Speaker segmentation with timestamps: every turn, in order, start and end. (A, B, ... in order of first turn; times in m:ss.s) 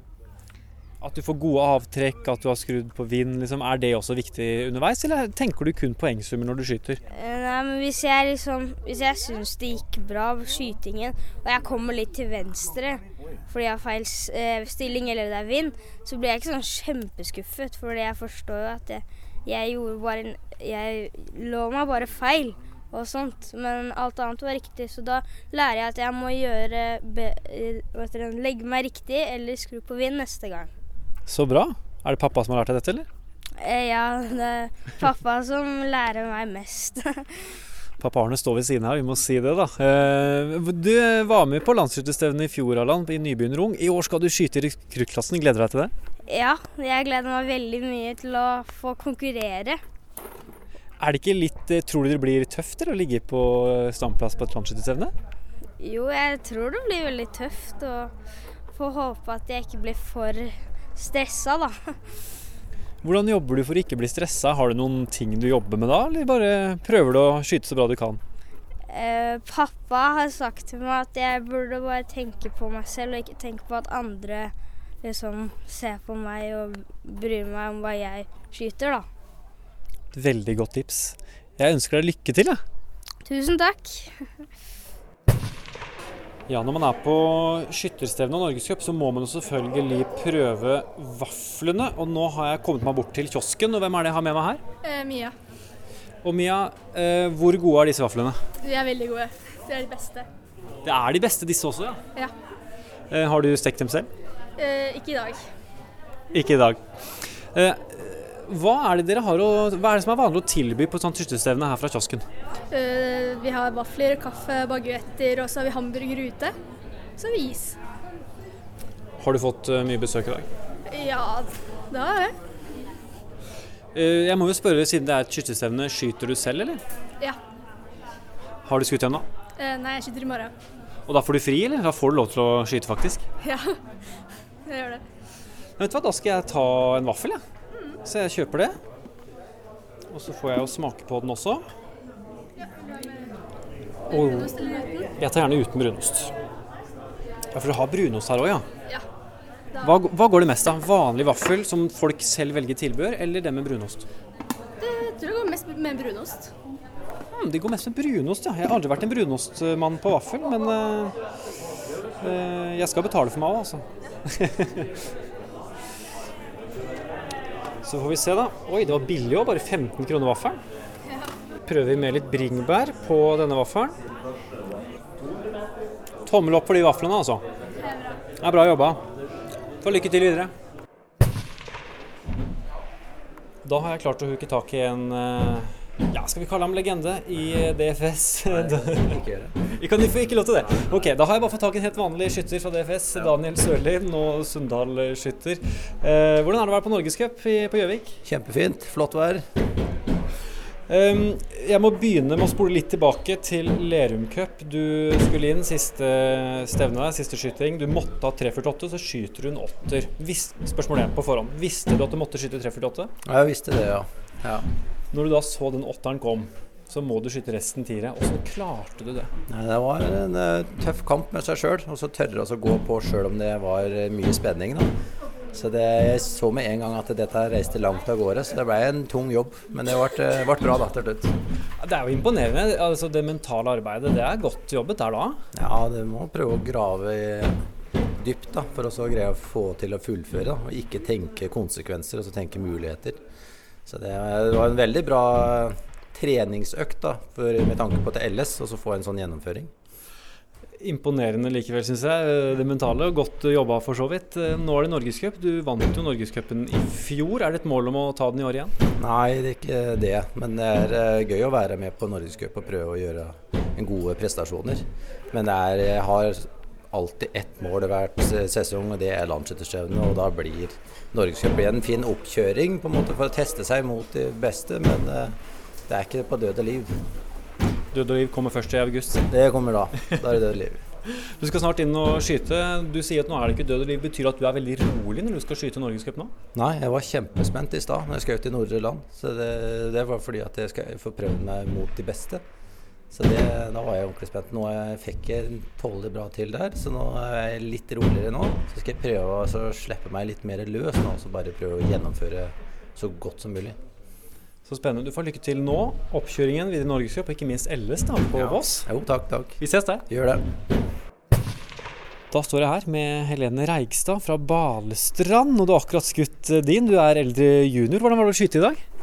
0:01.0-0:07.0 A
0:07.1-0:30.7 B
0:31.3-0:33.1 A
0:33.6-0:37.4 B
0:38.0-0:45.9 A
0:46.3-0:49.8 B
0:51.0-0:55.1 A
0:55.8-0:58.1 B
0:58.7-1:01.9 B
1:03.0-1:08.2 A
1:08.9-1:19.1 B
1:20.1-1:22.6 A
1:23.2-1:24.1 B
1:26.5-1:34.6 A
1:34.8-1:35.3 C
1:36.2-1:38.4 A
1:38.6-1:40.3 C
1:40.8-1:42.0 A
1:43.1-1:44.1 A
1:44.6-1:45.4 C
1:46.3-1:46.8 A
1:47.4-1:52.3 A
1:52.7-1:56.5 C
1:57.2-1:57.8 C
1:59.2-2:00.5 A
2:00.9-2:02.4 C
2:03.9-2:06.8 A
2:08.6-2:09.3 A
2:09.6-2:10.5 C
2:11.1-2:13.2 A
2:13.4-2:13.8 C
2:14.7-2:15.0 C
2:15.8-2:17.4 A
2:18.0-2:18.8 A
2:20.1-2:21.7 A
2:22.6-2:23.2 C
2:24.1-2:25.1 C
2:24.1-2:24.6 A
2:25.2-2:26.3 A
2:27.5-2:28.7 A
2:29.8-2:34.1 A
2:34.8-2:36.5 C
2:37.3-2:41.1 A
2:42.2-2:44.9 A
2:47.8-2:50.6 A
2:51.7-2:54.0 A
2:56.3-2:57.4 A
2:57.8-2:58.2 C
2:58.4-2:59.0 A
2:59.8-3:00.5 A
3:03.6-3:18.2 A
3:08.5-3:09.6 D
3:18.2-3:19.4 D
3:20.9-3:33.1 A
3:33.3-3:34.6 D
3:35.1-3:39.3 A
3:39.5-3:44.9 D
3:45.5-3:51.3 D
3:51.8-3:55.4 A
3:55.5-3:57.6 D
3:58.2-4:03.2 D
4:03.9-4:09.7 D
4:10.8-4:18.7 A
4:19.0-4:35.4 D
4:35.9-4:37.0 D
4:37.9-4:39.3 A
4:39.3-4:40.8 D
4:41.2-4:46.3 A
4:46.6-4:52.4 D
4:53.1-5:03.8 D
5:04.7-5:08.9 A
5:08.3-5:10.4 D
5:09.6-5:10.0 A
5:12.3-5:18.8 A